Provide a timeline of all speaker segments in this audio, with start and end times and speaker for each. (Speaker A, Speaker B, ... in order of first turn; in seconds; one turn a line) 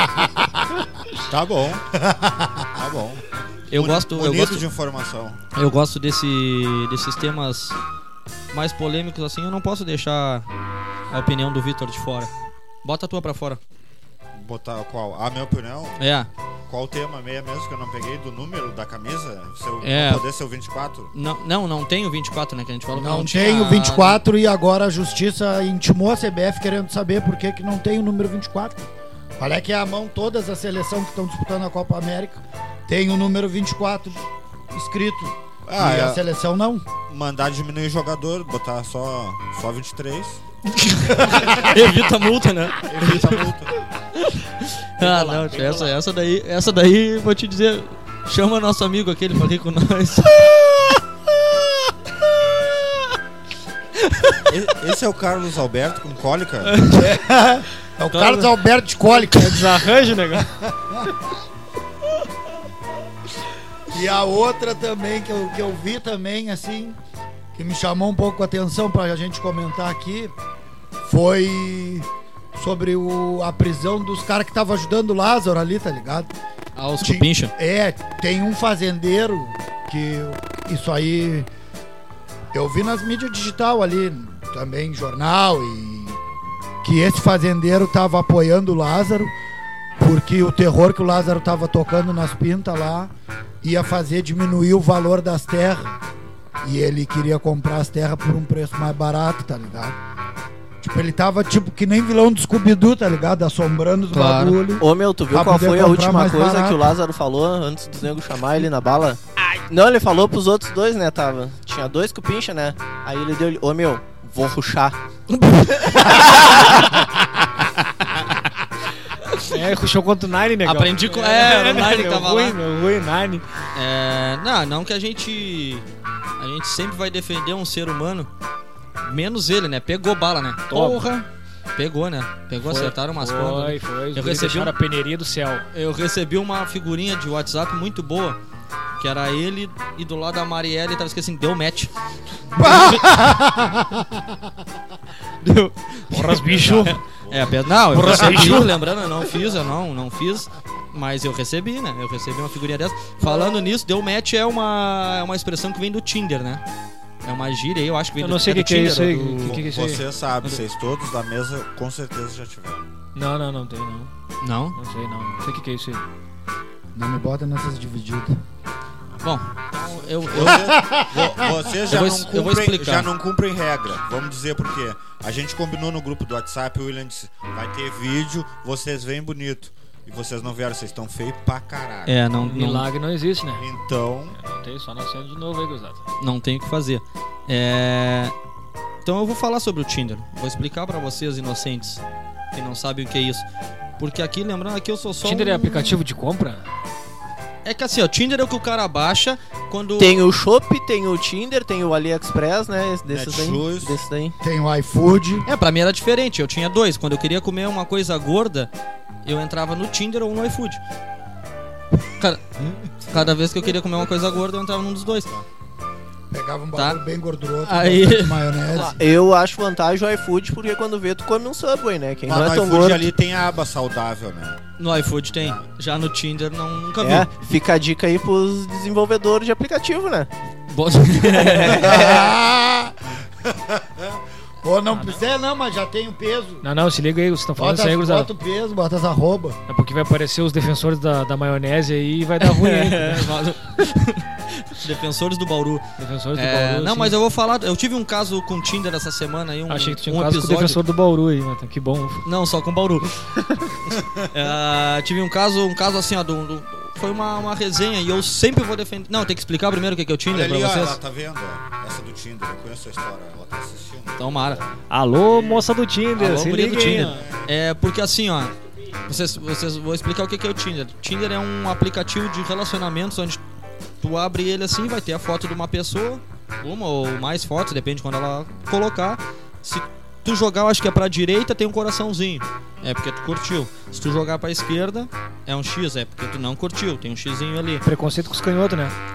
Speaker A: 0.2-0.4
Speaker B: 1.3-1.9
Speaker A: 2.0-2.7
Speaker B: 2.7-5.4
Speaker C: 3.7-4.6
Speaker C: 5.5-7.8
Speaker C: 8.5-10.5
Speaker C: 11.1-12.3
Speaker C: 12.8-13.6
Speaker B: 14.3-16.0
Speaker C: 16.0-16.3
Speaker B: 16.7-21.1
Speaker C: 19.8-20.2
Speaker C: 21.1-24.2
Speaker A: 22.9-36.8
Speaker B: 35.7-36.2
Speaker B: 37.1-40.4
Speaker C: 40.8-43.5
Speaker B: 42.9-43.7
Speaker C: 44.6-50.7
Speaker D: 45.0-46.0
Speaker B: 54.5-56.8
Speaker C: 56.7-57.1
Speaker A: 56.9-61.1
Speaker D: 59.2-60.5
Speaker A: 63.9-67.0
Speaker A: 67.5-70.3
Speaker A: 71.0-76.3
Speaker C: 76.8-77.5
Speaker A: 77.0-81.5
Speaker A: 82.5-86.2
Speaker A: 86.8-89.3
Speaker A: 90.0-96.0
Speaker A: 96.6-100.0
Speaker A: 100.8-107.0
Speaker C: 104.1-104.6
Speaker E: 104.8-115.0
Speaker C: 115.3-116.8
Speaker D: 119.5-123.5
Speaker C: 120.6-122.6
Speaker C: 123.8-125.8
Speaker C: 126.4-128.3
Speaker C: 129.0-134.7
Speaker D: 130.7-131.0
Speaker D: 132.6-135.7
Speaker C: 135.7-138.4
Speaker C: 139.0-141.9
Speaker A: 142.6-144.4
Speaker C: 142.6-143.2
Speaker C: 145.4-156.6
Speaker D: 146.1-147.0
Speaker B: 147.2-148.5
Speaker D: 147.9-148.8
Speaker C: 157.2-159.6
Speaker D: 158.2-160.1
Speaker B: 159.4-162.9
Speaker D: 163.2-164.1
Speaker C: 164.4-164.8
Speaker D: 164.8-166.0
Speaker A: 166.9-168.4
Speaker C: 169.2-170.6
Speaker B: 169.7-182.2
Speaker A: 170.4-171.5
Speaker C: 171.9-173.1
Speaker C: 182.1-182.9
Speaker D: 182.4-183.7
Speaker B: 183.6-184.4
Speaker D: 184.3-186.0
Speaker C: 186.2-188.3
Speaker C: 189.1-192.0
Speaker C: 192.5-193.4
Speaker C: 194.0-196.0
Speaker D: 195.2-196.7
Speaker C: 197.7-200.2
Speaker E: 200.0-204.4
Speaker B: 203.1-203.9
Speaker A: 204.4-205.5
Speaker C: 205.5-208.7
Speaker C: 209.2-210.8
Speaker C: 212.2-215.3
Speaker B: 214.9-215.4
Speaker A: 216.3-218.9
Speaker C: 217.6-218.9
Speaker E: 218.8-223.1
Speaker B: 222.2-224.7
Speaker C: 224.8-227.3
Speaker B: 225.3-225.6
Speaker E: 227.0-230.3
Speaker C: 230.7-231.9
Speaker E: 231.2-232.3
Speaker A: 231.8-236.7
Speaker D: 236.6-238.3
Speaker A: 237.6-239.6
Speaker D: 239.7-243.4
Speaker C: 242.4-250.8
Speaker D: 246.0-247.2
Speaker D: 249.7-252.3
Speaker C: 252.2-253.1
Speaker C: 254.3-261.0
Speaker B: 260.3-264.7
Speaker C: 264.2-264.6
Speaker D: 264.9-267.3
Speaker C: 266.2-268.5
Speaker B: 267.0-267.5
Speaker C: 269.1-273.4
Speaker C: 274.0-287.8
Speaker D: 287.8-288.9